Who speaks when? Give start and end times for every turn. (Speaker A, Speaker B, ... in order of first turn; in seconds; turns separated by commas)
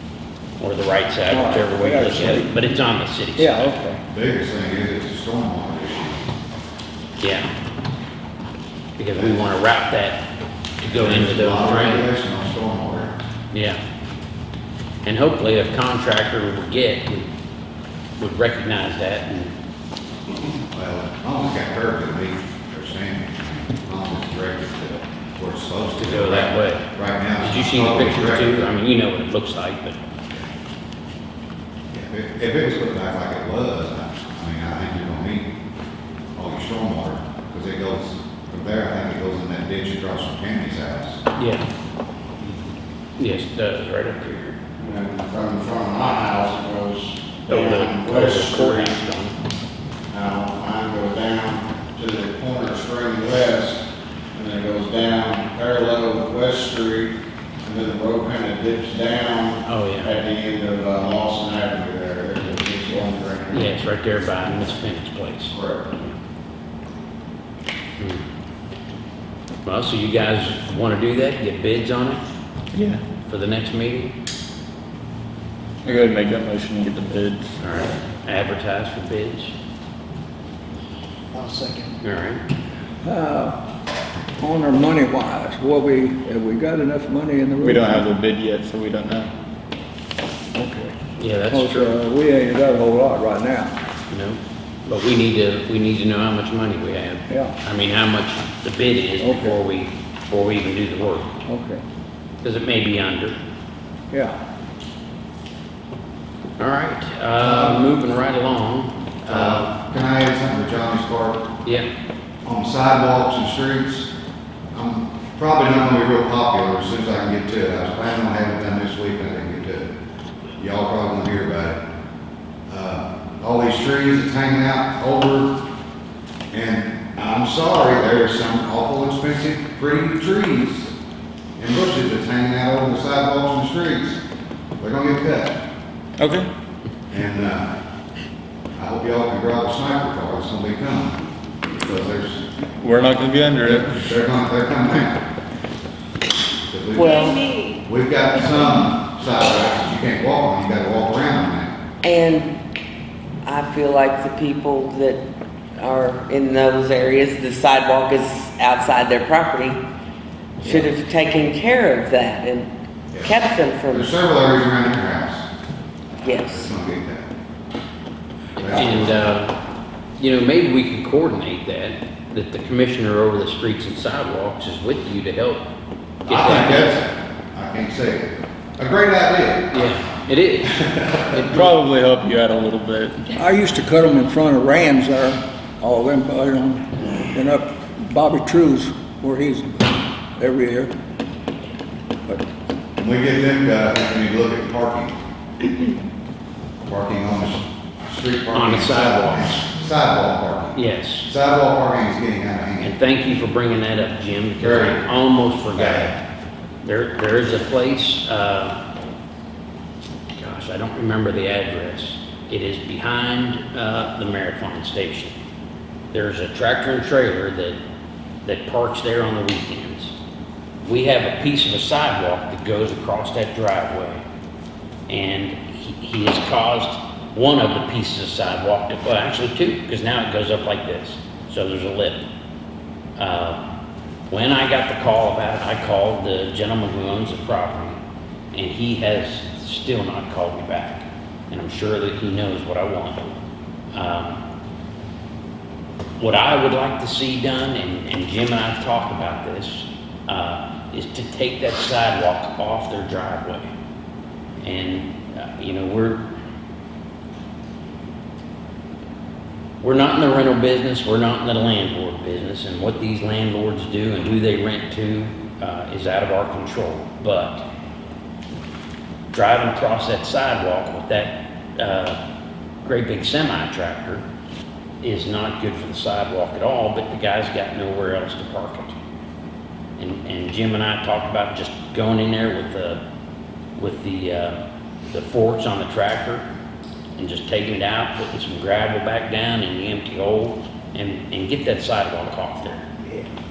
Speaker A: 0.6-3.8, Speaker B: 1.3-2.7, Speaker B: 3.4-4.0, Speaker C: 4.1-6.2, Speaker A: 7.2-7.5, Speaker A: 9.0-10.2, Speaker C: 9.2-9.4, Speaker A: 10.8-12.1, Speaker C: 10.9-13.1, Speaker A: 13.5-13.8, Speaker A: 15.1-17.3, Speaker A: 18.2-19.5, Speaker C: 20.7-28.7, Speaker A: 26.0-26.9, Speaker A: 27.4-30.0, Speaker C: 31.9-35.5, Speaker C: 36.4-41.2, Speaker A: 41.4-41.6, Speaker A: 43.2-44.6, Speaker D: 44.8-49.0, Speaker A: 47.5-49.4, Speaker D: 50.1-53.8, Speaker D: 54.4-57.1, Speaker D: 57.6-63.6, Speaker A: 59.6-60.1, Speaker A: 63.5-65.6, Speaker A: 68.0-68.3, Speaker A: 69.7-72.2, Speaker E: 72.7-73.0, Speaker A: 73.3-74.1, Speaker E: 75.8-77.6, Speaker A: 77.6-79.5, Speaker B: 81.3-81.9, Speaker A: 82.0-82.4, Speaker B: 83.0-83.6, Speaker B: 84.4-88.0, Speaker E: 87.6-89.3, Speaker B: 90.5-91.0, Speaker A: 91.2-92.0, Speaker B: 91.5-93.8, Speaker A: 94.1-101.3, Speaker B: 97.3-97.5, Speaker B: 99.2-99.6, Speaker B: 101.5-101.8, Speaker A: 102.4-103.4, Speaker B: 104.1-104.4, Speaker A: 106.6-109.7, Speaker C: 107.4-107.9, Speaker C: 109.3-111.4, Speaker C: 112.5-114.1, Speaker C: 114.7-119.9, Speaker C: 120.6-121.8, Speaker C: 122.7-125.6, Speaker C: 126.5-130.9, Speaker C: 131.6-134.2, Speaker C: 134.8-135.6, Speaker E: 136.2-136.5, Speaker C: 137.1-137.7, Speaker C: 138.8-142.4, Speaker E: 142.8-143.9, Speaker C: 143.7-145.2, Speaker C: 146.6-147.3, Speaker F: 147.0-147.8, Speaker C: 147.9-151.7, Speaker F: 152.0-152.6, Speaker F: 153.4-155.2, Speaker F: 155.8-159.8, Speaker F: 160.6-162.7, Speaker C: 163.1-163.4, Speaker F: 163.2-164.1, Speaker C: 163.9-165.4, Speaker F: 166.2-166.7, Speaker C: 166.2-167.2, Speaker C: 168.6-169.3, Speaker A: 168.6-169.6, Speaker A: 170.2-175.6, Speaker C: 176.3-179.9, Speaker A: 176.3-177.0, Speaker A: 179.7-181.7, Speaker C: 180.8-181.4, Speaker E: 181.5-183.3, Speaker B: 183.4-190.9, Speaker C: 193.0-195.1, Speaker C: 196.9-203.0, Speaker A: 198.5-199.6, Speaker A: 200.8-201.3, Speaker A: 202.8-206.2, Speaker C: 204.6-205.0, Speaker C: 205.8-206.1, Speaker A: 206.8-208.8, Speaker A: 210.4-215.3, Speaker A: 216.1-217.8, Speaker A: 218.4-220.1, Speaker A: 220.8-224.2, Speaker A: 225.1-232.3, Speaker A: 233.2-233.6, Speaker A: 234.3-238.0, Speaker A: 238.5-243.3, Speaker A: 243.9-244.4, Speaker A: 246.2-253.7, Speaker A: 254.6-256.2, Speaker A: 259.8-267.7, Speaker A: 269.3-272.2, Speaker A: 272.8-274.2, Speaker A: 275.0-278.9, Speaker A: 280.0-283.0, Speaker A: 283.8-284.6, Speaker A: 285.1-286.4, Speaker A: 287.2-292.9